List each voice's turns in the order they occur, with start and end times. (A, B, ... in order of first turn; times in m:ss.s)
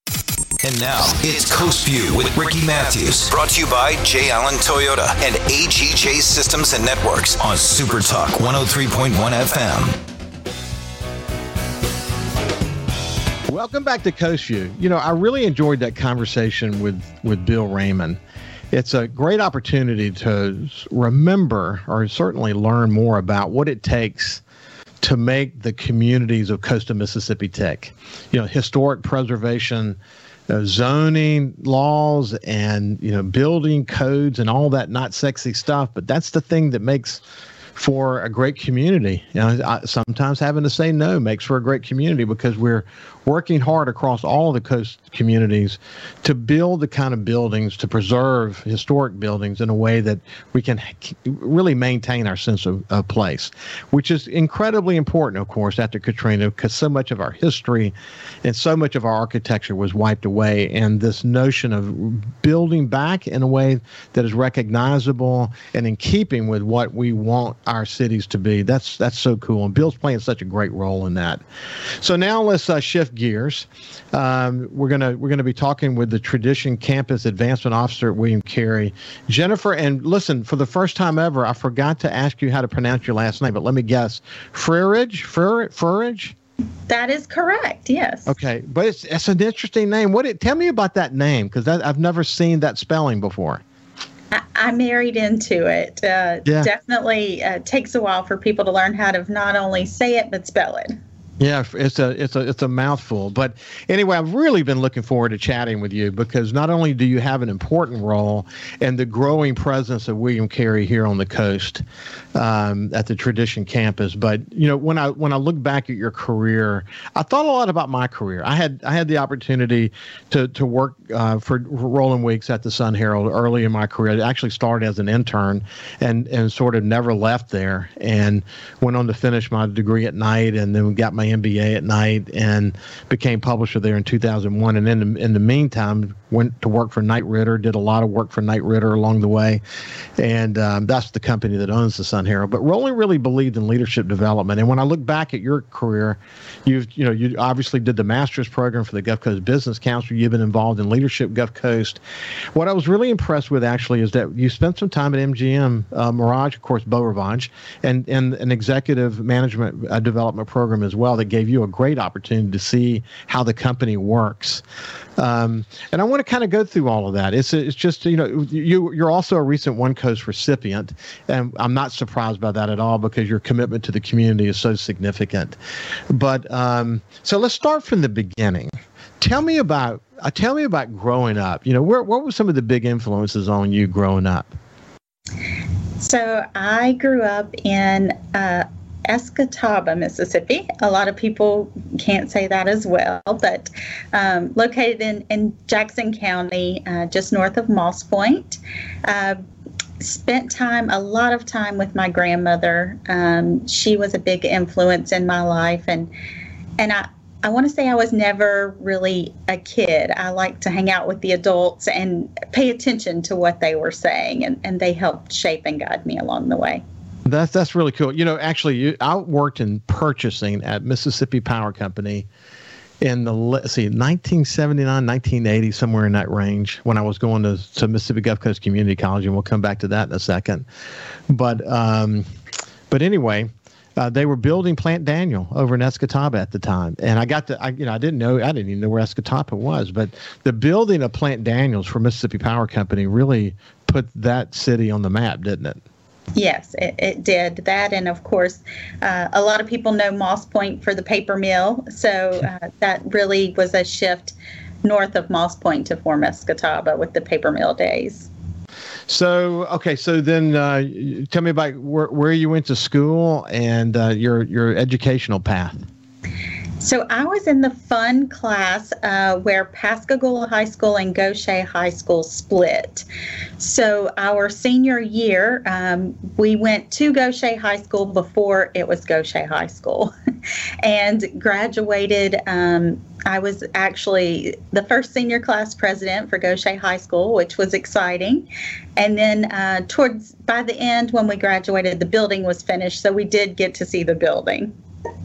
0:00.6-0:10.0 A
0:13.5-0:18.2 B
0:18.7-0:24.4 B
0:25.0-0:30.0 B
0:30.5-0:37.2 B
0:37.8-1:11.4 B
1:12.0-1:26.3 B
1:26.9-1:28.3 C
1:28.3-1:33.6 B
1:34.3-1:41.0 C
1:36.4-1:36.7 B
1:41.4-1:51.8 B
1:52.3-2:19.6 B
2:20.2-2:32.0 B
2:32.5-2:44.6 B
2:45.2-2:55.6 B
2:56.1-3:04.5 B
3:06.0-3:19.4 C
3:20.0-3:26.1 C
3:26.8-3:36.8 C
3:37.2-3:42.3 B
3:43.0-3:50.7 B
3:51.3-3:52.2 B
3:52.9-4:05.8 B
4:06.3-4:18.3 C
4:19.1-4:25.8 B
4:26.8-4:33.0 C
4:33.6-4:40.1 C
4:40.8-4:54.7 C